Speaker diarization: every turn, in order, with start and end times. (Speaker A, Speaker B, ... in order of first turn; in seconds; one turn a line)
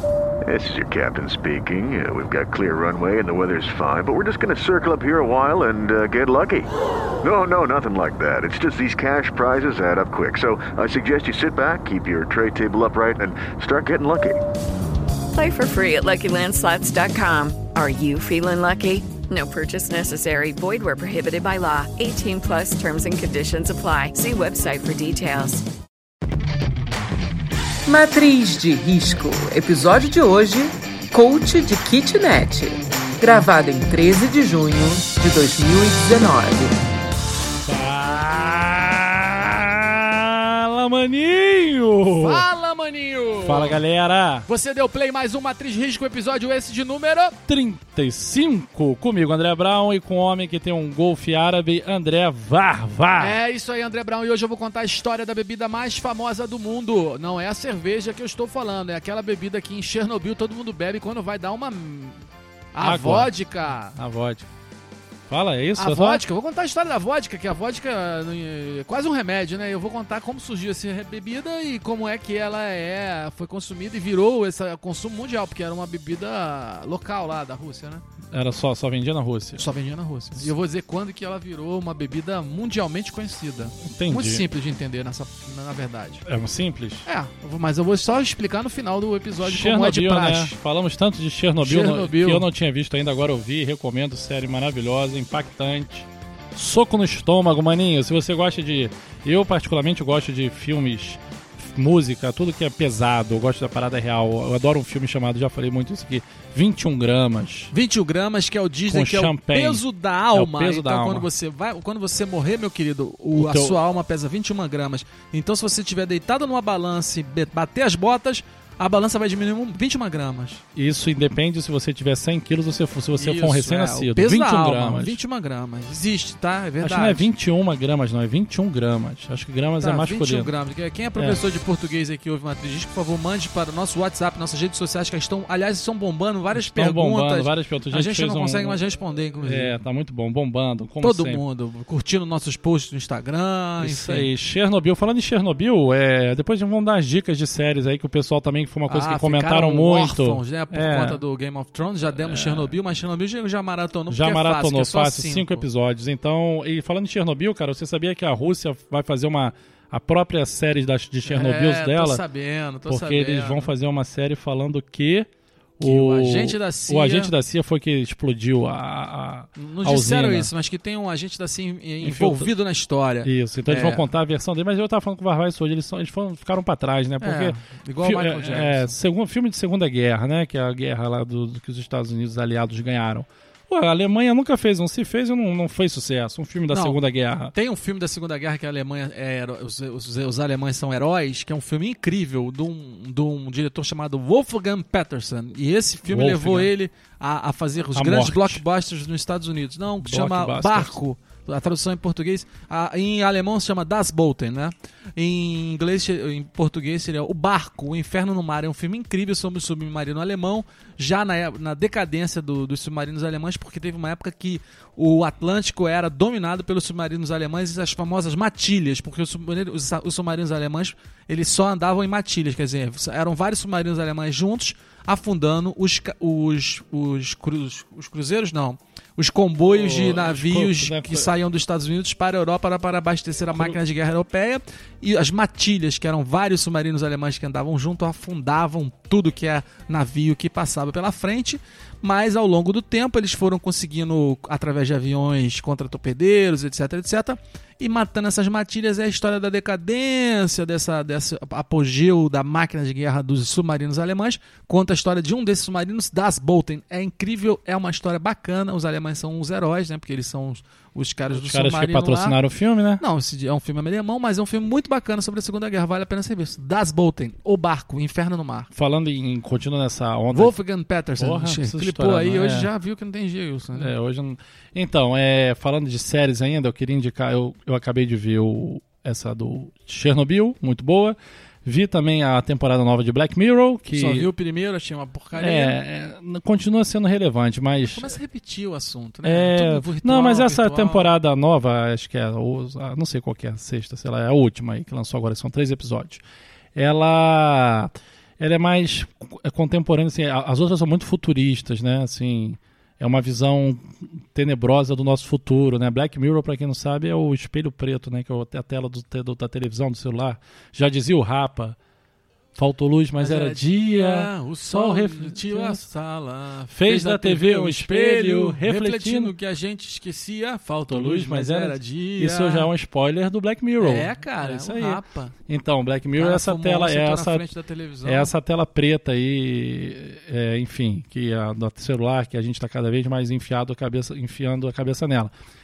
Speaker A: 0.4-6.7
Speaker A: 7.2-14.4
Speaker B: 15.3-25.6
Speaker C: 27.9-36.8
Speaker D: 37.6-42.5
Speaker E: 42.1-43.8
Speaker D: 43.4-44.5
Speaker E: 44.5-47.4
Speaker D: 47.5-53.4
Speaker E: 53.2-62.2
Speaker E: 62.7-64.0
Speaker D: 62.8-63.3
Speaker D: 63.9-64.5
Speaker D: 65.3-66.2
Speaker E: 65.8-78.0
Speaker D: 78.3-79.7
Speaker E: 79.6-86.2
Speaker D: 83.8-84.4
Speaker D: 86.2-87.0
Speaker E: 87.0-90.5
Speaker D: 89.4-107.7
Speaker E: 91.6-92.5
Speaker E: 107.7-120.6
Speaker D: 108.8-111.3
Speaker D: 113.3-113.8
Speaker D: 120.7-125.2
Speaker E: 123.2-127.3
Speaker D: 126.8-130.5
Speaker E: 129.8-139.8
Speaker D: 131.2-131.4
Speaker D: 136.5-138.8
Speaker D: 139.4-141.4
Speaker E: 141.0-144.3
Speaker D: 143.8-151.2
Speaker E: 148.9-155.6
Speaker D: 152.1-152.8
Speaker D: 154.1-162.2
Speaker E: 161.2-163.7
Speaker D: 162.8-170.5
Speaker E: 165.8-167.3
Speaker E: 169.6-174.1
Speaker D: 172.0-172.5
Speaker D: 173.2-187.5
Speaker E: 177.2-179.0
Speaker E: 186.7-187.0
Speaker E: 187.5-262.4
Speaker D: 196.1-196.7
Speaker D: 197.9-198.6
Speaker D: 200.0-200.9
Speaker D: 229.6-231.3
Speaker D: 233.5-233.8
Speaker D: 261.3-263.0
Speaker E: 263.0-268.7
Speaker D: 268.7-270.6
Speaker E: 270.3-273.9
Speaker D: 271.2-272.7
Speaker D: 273.7-284.3
Speaker E: 283.9-285.8
Speaker D: 285.3-288.2
Speaker E: 287.8-291.1
Speaker D: 289.2-296.2
Speaker D: 296.7-311.8
Speaker D: 312.5-315.9
Speaker E: 313.2-322.7
Speaker D: 316.7-319.3
Speaker D: 320.9-327.5
Speaker E: 323.8-325.3
Speaker E: 326.1-328.3
Speaker D: 328.0-335.3